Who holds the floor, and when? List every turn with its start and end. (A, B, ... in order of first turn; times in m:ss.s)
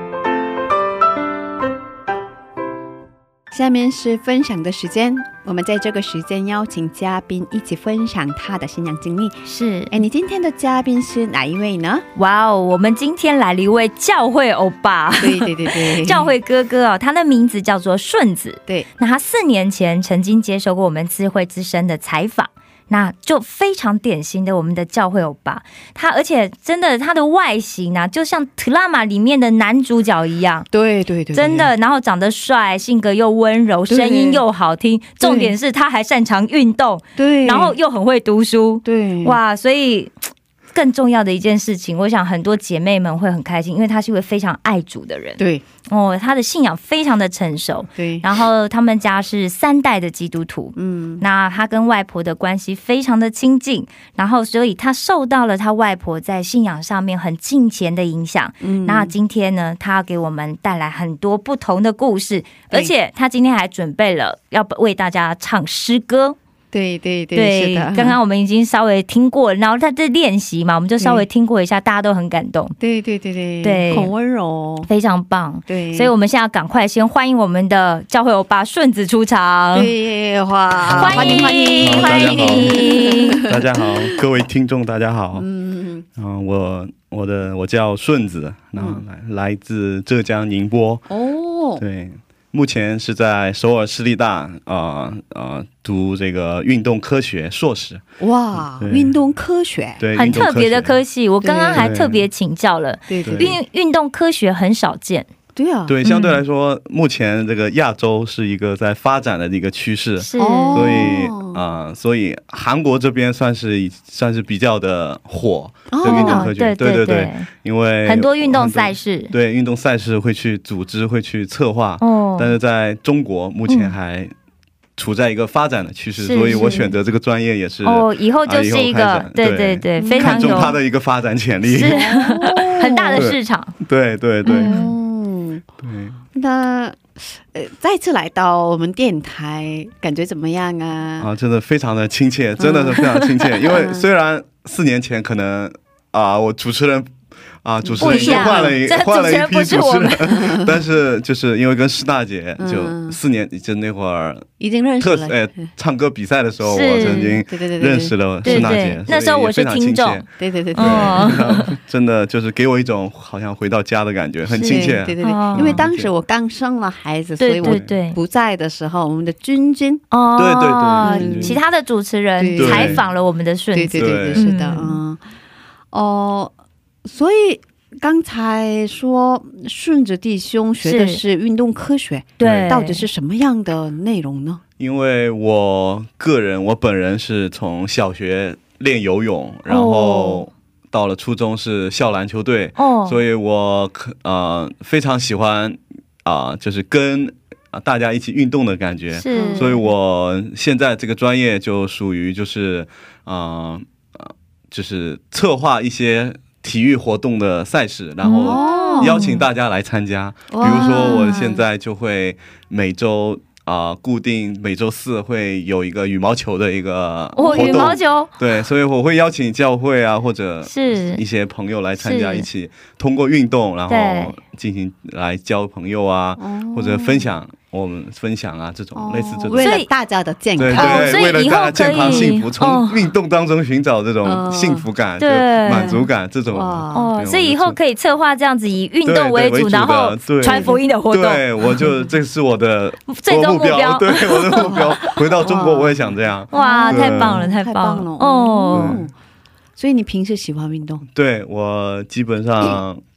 0:03.5-0:12.0 A
0:09.4-0:10.0 B
0:12.2-0:30.6 B
0:15.2-0:16.3 A
0:30.7-0:31.7 A
0:31.3-0:40.1 B
0:33.9-0:34.4 A
0:35.2-0:35.5 A
0:37.2-0:37.8 A
0:38.8-0:39.4 A
0:40.7-1:06.4 B
0:48.0-0:48.2 A
0:50.8-0:51.2 A
0:58.6-0:59.1 A
1:06.7-1:08.2 A
1:07.3-1:12.7 B
1:11.0-1:11.2 A
1:12.8-1:14.9 A
1:13.6-1:14.1 B
1:14.8-1:19.9 B
1:15.7-1:16.1 A
1:19.7-1:24.1 A
1:20.8-1:25.5 C
1:20.9-1:23.4 B
1:25.3-1:26.0 A
1:26.2-1:31.1 C
1:28.8-1:29.0 A
1:31.1-1:31.8 A
1:31.8-1:39.1 C
1:38.2-1:40.0 A
1:40.0-1:41.0 C
1:40.1-1:45.3 B
1:41.4-1:41.9 A
1:41.7-1:42.2 C
1:43.1-1:43.6 A
1:43.2-1:43.6 C
1:45.5-1:46.0 A
1:45.9-2:04.3 C
1:46.0-1:46.4 B
1:50.2-1:51.2 B
1:50.4-1:51.7 A
1:55.9-1:56.5 A
1:56.0-1:57.5 B
1:58.0-1:59.3 B
2:02.0-2:02.5 B
2:03.7-2:03.9 B
2:05.0-2:12.1 C
2:06.2-2:06.9 B
2:06.4-2:06.9 A
2:07.8-2:10.8 B
2:10.0-2:10.8 A
2:11.7-2:13.7 B
2:11.7-2:13.2 A
2:13.2-2:14.8 C
2:14.4-2:15.6 A
2:14.5-2:14.9 B
2:15.8-2:16.2 C
2:16.3-2:21.3 A
2:21.2-2:46.1 C
2:22.6-2:24.0 A
2:27.8-2:28.8 A
2:28.0-2:30.5 B
2:30.3-2:30.7 A
2:32.6-2:33.2 A
2:34.6-2:35.7 A
2:36.6-2:37.4 B
2:37.0-2:38.9 A
2:38.4-2:41.7 B
2:40.4-2:41.4 A
2:44.5-2:45.8 B
2:44.6-2:50.0 A
2:47.4-2:48.2 B
2:47.6-2:47.9 C
2:50.1-2:55.0 B
2:50.4-2:51.6 C
2:51.0-2:51.6 A
2:52.4-2:53.1 A
2:52.6-2:53.0 C
2:53.7-2:55.2 A
2:54.0-2:54.5 C
2:55.9-2:56.5 A
2:57.0-3:04.6 A
3:00.8-3:01.2 B
3:02.4-3:03.1 B
3:02.4-3:02.7 C
3:04.8-3:49.8 C
3:09.7-3:10.5 B
3:12.8-3:13.2 B
3:19.1-3:19.8 B
3:19.3-3:19.8 A
3:28.2-3:29.4 B
3:28.4-3:29.2 A
3:30.5-3:31.6 A
3:30.6-3:31.4 B
3:37.4-3:38.3 B
3:37.4-3:38.0 A
3:40.6-3:41.2 B
3:42.0-3:42.5 B
3:43.9-3:44.4 B
3:46.4-3:47.2 A
3:48.9-3:52.3 A
3:49.6-3:49.9 B
3:50.6-3:57.8 C
3:50.7-3:53.1 B
3:54.2-3:54.9 A
3:55.2-3:56.1 B
3:56.5-3:57.1 A
3:56.9-4:01.4 B
3:59.0-4:07.5 C
4:00.4-4:00.8 A
4:03.1-4:04.7 B
4:04.6-4:09.1 A
4:06.5-4:09.0 B
4:08.7-4:09.1 C
4:09.8-4:11.0 A
4:11.1-4:13.0 C